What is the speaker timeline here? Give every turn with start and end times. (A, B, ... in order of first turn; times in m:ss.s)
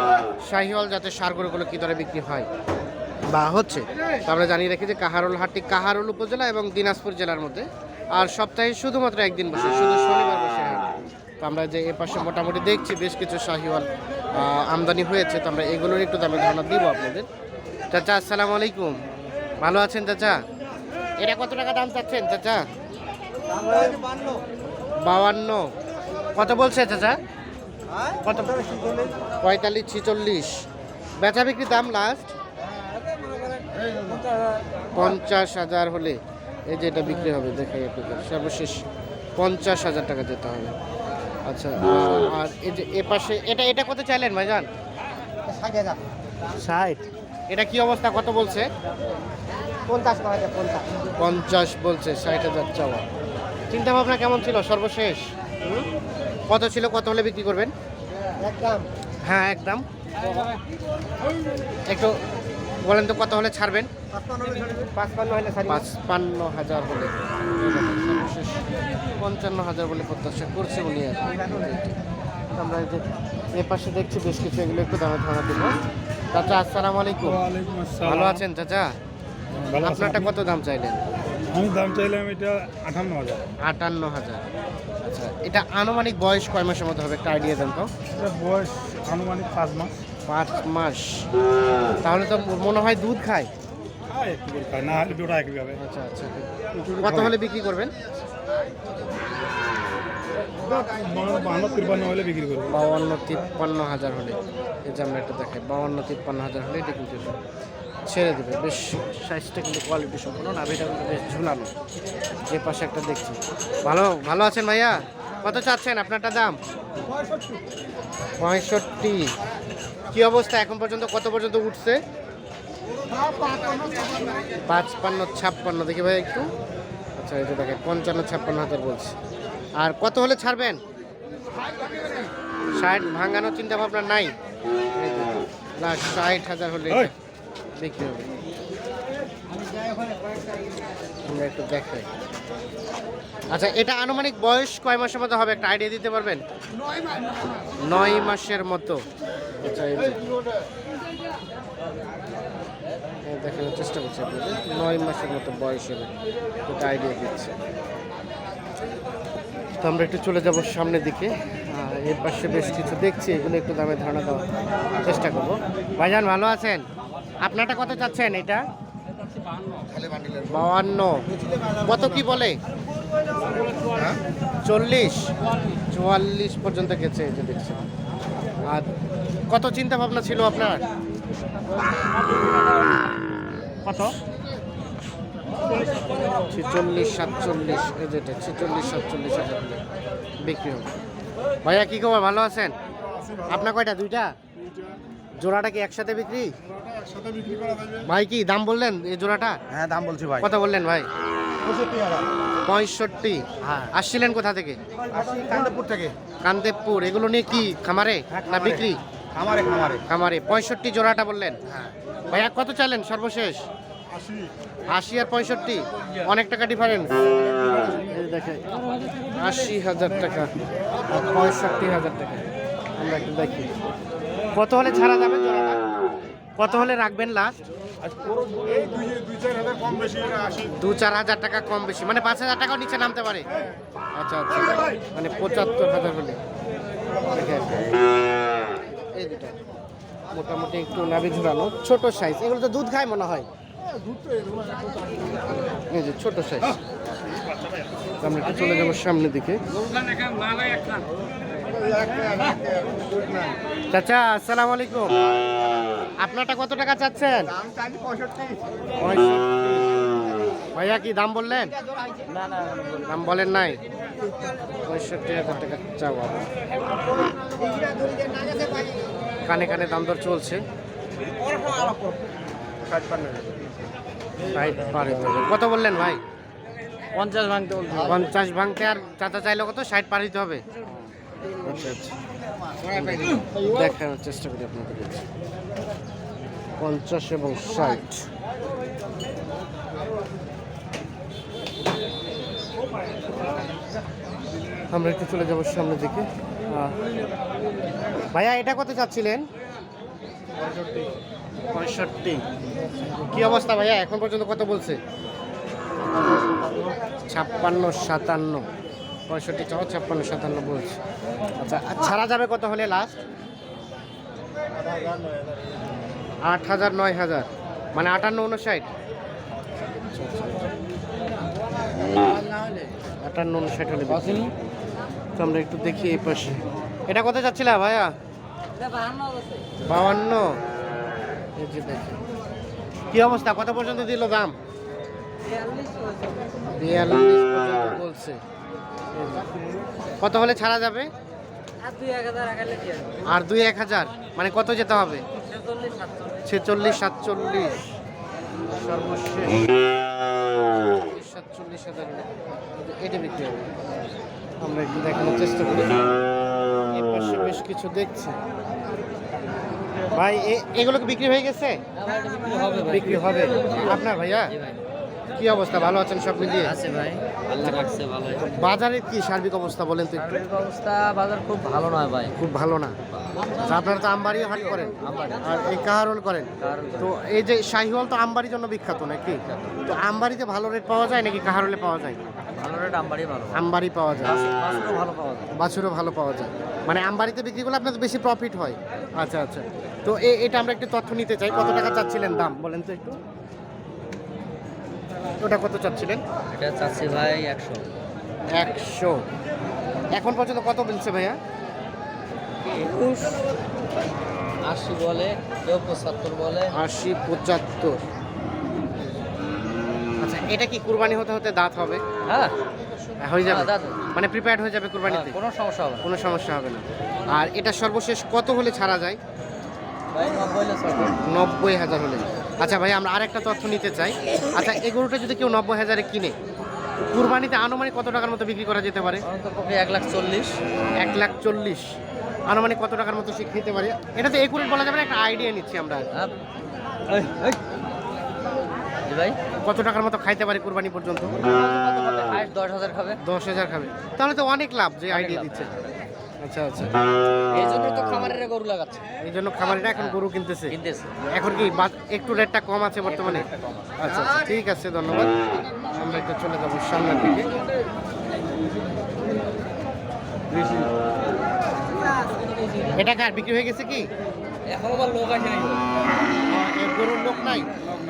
0:00.4-0:02.5 A
0:03.3-0:17.3 A
0:17.9-0:19.0 A
0:19.6-0:20.4 A
0:21.2-0:22.6 A
0:23.5-0:24.4 B
0:25.0-0:25.7 A
0:26.3-0:27.2 A
0:28.2-0:30.6 A
0:31.2-0:32.3 A
0:34.9-0:38.8 A
0:39.4-0:40.7 A
0:41.4-0:44.7 A
0:45.5-0:46.0 B
0:46.6-0:48.7 A
0:49.9-0:50.8 B
0:51.2-0:53.0 A
0:53.7-0:55.3 A
0:56.5-0:57.7 A
0:58.4-0:58.8 B
0:59.2-0:59.8 A
1:01.9-1:02.2 A
1:02.8-1:03.9 A
1:04.2-1:05.8 B
1:05.5-1:08.6 A
1:09.2-1:11.9 A
1:12.5-1:13.0 A
1:13.5-1:15.8 A
1:16.3-1:17.4 A
1:17.2-1:18.5 C
1:18.0-1:19.0 A
1:19.6-1:20.4 C
1:19.8-1:21.0 A
1:21.5-1:23.4 C
1:23.6-1:24.4 A
1:25.0-1:27.9 A
1:28.1-1:30.0 C
1:30.2-1:31.3 A
1:32.0-1:33.5 A
1:34.1-1:35.8 C
1:35.8-1:37.9 A
1:36.7-1:37.3 C
1:40.6-1:42.8 C
1:42.7-1:47.4 A
1:48.0-1:51.7 A
1:52.5-1:56.6 A
1:58.4-1:59.3 A
2:00.1-2:02.0 A
2:03.2-2:04.0 B
2:04.7-2:06.5 A
2:07.2-2:09.2 A
2:09.8-2:10.8 A
2:12.8-2:14.3 A
2:15.0-2:17.1 A
2:17.8-2:18.3 A
2:21.3-2:22.1 A
2:23.5-2:26.4 A
2:27.8-2:29.0 A
2:29.6-2:30.2 A
2:33.2-2:36.1 A
2:36.6-2:37.5 A
2:39.8-2:46.9 A
2:47.4-2:48.7 A
2:50.4-2:51.2 A
2:51.8-2:52.6 A
2:54.0-2:55.3 A
2:55.9-2:57.8 A
2:59.5-3:00.8 A
3:03.8-3:04.1 A
3:06.5-3:09.8 A
3:10.4-3:10.9 A
3:11.6-3:12.8 A
3:13.4-3:14.3 A
3:15.4-3:16.5 A
3:17.3-3:17.7 B
3:18.0-3:19.6 A
3:19.7-3:20.4 B
3:20.4-3:21.1 A
3:21.7-3:22.2 B
3:22.6-3:24.8 A
3:25.1-3:26.1 B
3:26.4-3:29.0 A
3:28.4-3:28.8 B
3:29.4-3:30.0 B
3:30.0-3:31.6 A
3:32.3-3:33.6 A
3:34.9-3:38.7 A
3:39.4-3:40.5 A
3:41.1-3:42.4 A
3:43.0-3:43.7 A
3:44.5-3:45.8 A
3:46.6-3:47.5 A
3:48.1-3:50.6 C
3:50.6-3:53.5 A
3:54.2-3:56.4 A
3:57.3-3:57.9 A
3:59.1-3:59.6 A
4:00.3-4:03.5 A
4:05.9-4:06.8 A
4:08.2-4:09.6 A
4:12.1-4:12.8 B
4:13.9-4:15.3 A
4:16.2-4:17.6 A
4:17.8-4:18.5 B
4:19.0-4:19.7 A
4:20.7-4:21.7 A
4:22.3-4:22.8 D
4:23.0-4:23.8 A
4:24.8-4:26.5 A
4:27.8-4:28.2 B
4:29.4-4:30.6 A
4:34.5-4:36.2 A
4:37.1-4:38.2 D
4:38.0-4:40.6 A
4:41.6-4:42.2 A
4:42.8-4:45.2 A
4:46.8-4:48.3 A
4:54.9-4:57.0 A
4:58.3-4:59.4 A
5:00.7-5:01.1 C
5:01.7-5:02.4 A
5:03.2-5:05.0 A
5:07.3-5:08.6 A
5:09.3-5:11.0 A
5:11.6-5:13.2 A
5:16.4-5:18.9 A
5:20.0-5:20.7 A
5:23.2-5:24.4 A
5:24.1-5:24.5 D
5:25.4-5:28.1 A
5:29.8-5:30.6 A
5:31.6-5:32.2 A
5:33.1-5:34.5 A
5:36.7-5:38.4 A
5:39.1-5:39.5 A
5:40.2-5:41.1 A
5:41.8-5:43.2 D
5:43.2-5:45.2 A
5:45.8-5:46.0 D
5:46.4-5:47.8 A
5:48.7-5:49.7 A
5:50.8-5:53.7 A
5:54.6-5:56.0 A
5:56.9-5:58.4 A
6:00.1-6:01.8 A
6:02.0-6:04.8 D
6:02.8-6:04.5 A
6:05.4-6:06.8 A
6:06.5-6:08.6 D
6:08.5-6:10.4 A
6:10.2-6:12.3 D
6:12.4-6:13.0 A
6:13.6-6:22.2 A
6:15.0-6:15.7 D
6:16.6-6:17.1 D
6:22.6-6:25.5 D
6:23.5-6:24.4 A
6:25.5-6:33.2 A
6:35.4-6:36.2 A
6:36.5-6:37.9 D
6:38.6-6:39.2 A
6:40.1-6:41.4 A
6:42.6-6:43.5 D
6:44.6-6:46.8 D
6:46.7-6:48.0 A
6:50.2-6:52.0 A
6:52.2-6:52.5 D
6:53.2-6:55.4 A
6:53.4-6:54.0 D
6:55.1-6:56.1 D
6:56.0-6:59.2 A
7:00.1-7:01.2 D
7:01.2-7:06.4 A
7:07.0-7:09.2 A
7:09.2-7:10.6 D
7:11.0-7:11.9 A
7:12.5-7:16.1 A
7:17.1-7:17.6 D
7:19.0-7:19.4 D
7:19.6-7:21.4 A
7:21.4-7:23.2 D
7:23.2-7:25.7 A
7:25.1-7:26.0 D
7:26.4-7:26.9 A
7:27.5-7:29.1 D
7:29.2-7:30.8 A
7:30.7-7:31.2 D
7:31.3-7:35.3 A
7:33.1-7:33.9 D
7:35.9-7:37.5 A
7:42.9-7:44.1 A
7:44.7-7:45.8 D
7:46.4-7:47.7 A